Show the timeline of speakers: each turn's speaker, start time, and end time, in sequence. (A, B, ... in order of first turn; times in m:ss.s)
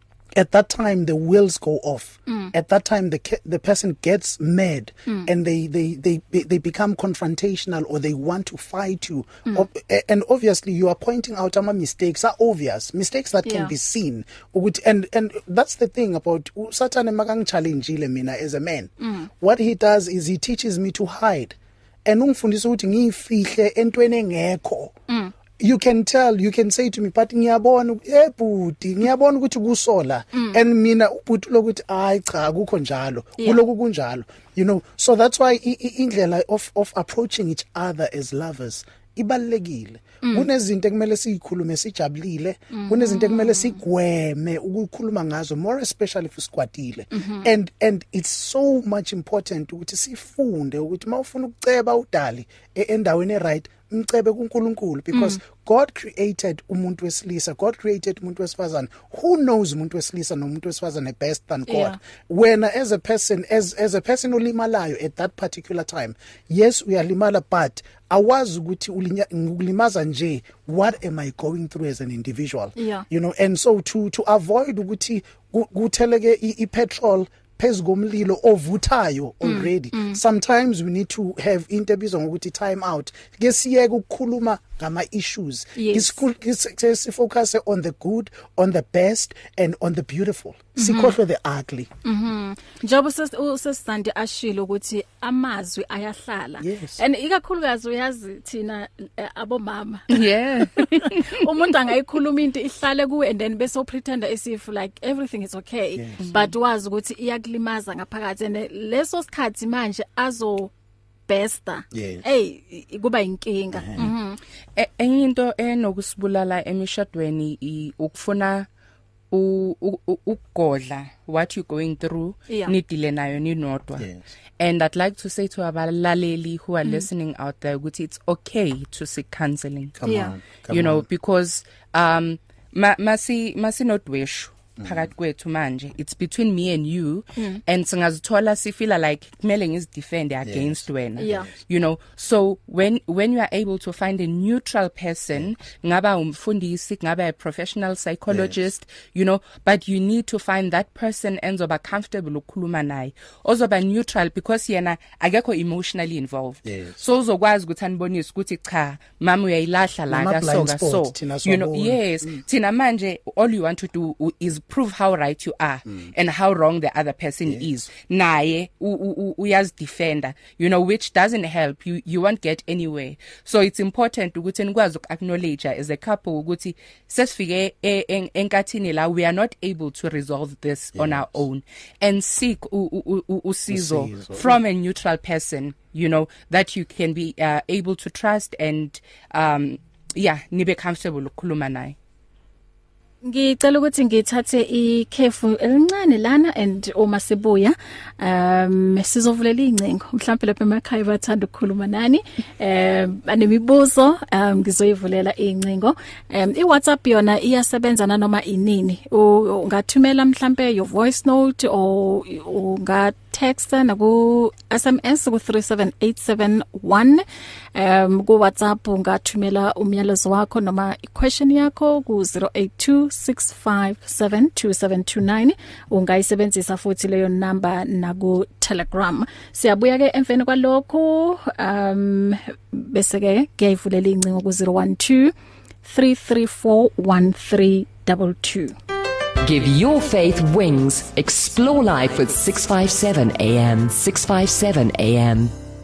0:00.4-0:24.9 A
0:02.3-0:02.5 B
0:13.4-0:13.7 B
0:19.0-0:19.3 B
0:25.6-1:31.9 A
0:30.4-0:30.6 B
0:42.7-0:43.8 B
0:47.1-0:47.5 B
0:55.1-0:55.4 B
1:01.7-1:02.0 B
1:12.8-1:13.0 B
1:19.4-1:20.2 B
1:25.8-1:26.2 B
1:30.8-1:31.1 B
1:32.0-1:50.7 B
1:36.6-1:37.0 A
1:40.1-1:41.4 C
1:46.0-1:46.2 A
1:46.2-1:46.5 C
1:51.3-1:54.4 B
1:51.9-1:52.2 A
1:53.7-1:54.1 A
1:54.8-1:58.7 C
1:59.3-2:04.1 C
2:04.0-2:04.3 A
2:04.6-2:10.0 C
2:10.0-2:11.1 A
2:10.1-2:10.3 B
2:10.7-3:12.0 C
2:14.8-2:15.1 A
2:20.4-2:21.5 A
2:21.2-2:21.5 B
2:28.3-2:28.6 A
2:36.6-2:37.0 A
2:40.1-2:42.4 A
3:00.9-3:01.4 A
3:03.7-3:04.6 A
3:13.2-3:37.2 B
3:37.8-3:58.8 B
3:59.4-4:05.5 D